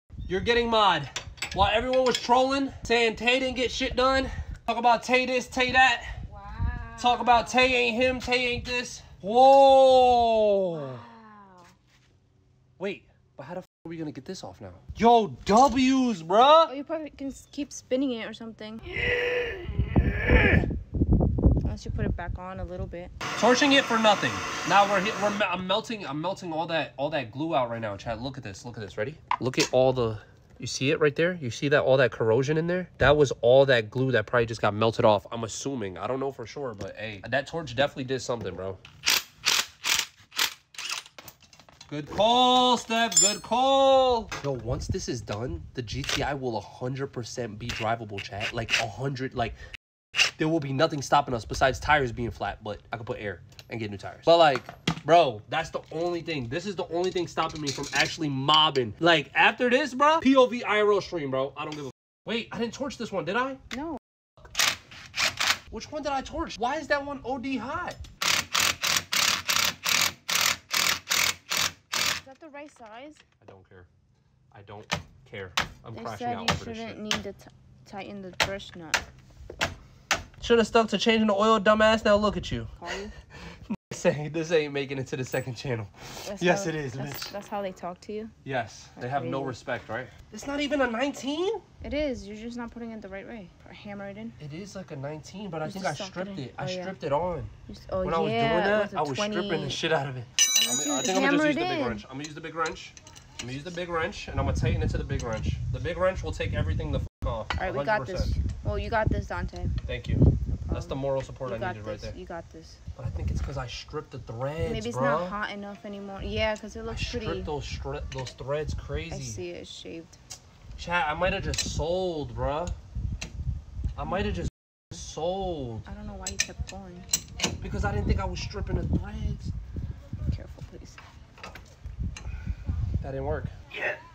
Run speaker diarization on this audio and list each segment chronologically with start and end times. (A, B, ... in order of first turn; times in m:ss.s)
0:00.3-0:06.2 A
0:06.3-0:07.8 B
0:07.0-0:11.0 A
0:10.7-0:11.7 B
0:12.8-0:16.7 A
0:16.7-0:18.8 B
0:18.8-0:20.7 A
0:21.6-0:23.1 B
0:23.4-0:38.8 A
0:41.9-0:49.6 A
0:50.4-1:03.6 A
1:03.7-1:04.0 B
1:05.7-1:08.0 A
1:12.2-1:13.2 B
1:13.4-1:13.9 A
1:14.5-1:17.0 A
1:15.9-1:19.0 B
1:20.4-1:22.7 A
1:22.8-1:23.1 B
1:23.7-1:27.3 A
1:26.3-1:28.4 B
1:28.4-1:31.6 A
1:29.0-1:29.6 B
1:31.8-1:34.4 B
1:34.4-1:37.5 A
1:35.6-1:37.0 B
1:37.7-1:39.8 B
1:38.0-1:48.3 A
1:40.4-1:42.0 B
1:47.6-1:49.7 B
1:49.8-1:52.2 A
1:50.5-1:52.8 B
1:53.0-1:55.4 A
1:54.6-1:57.5 B
1:56.9-1:59.4 A
1:59.1-2:00.2 B
2:00.8-2:02.8 A
2:04.0-2:05.9 A
2:05.8-2:07.1 B
2:07.6-2:09.5 A
2:10.3-2:11.0 B
2:13.0-2:14.0 A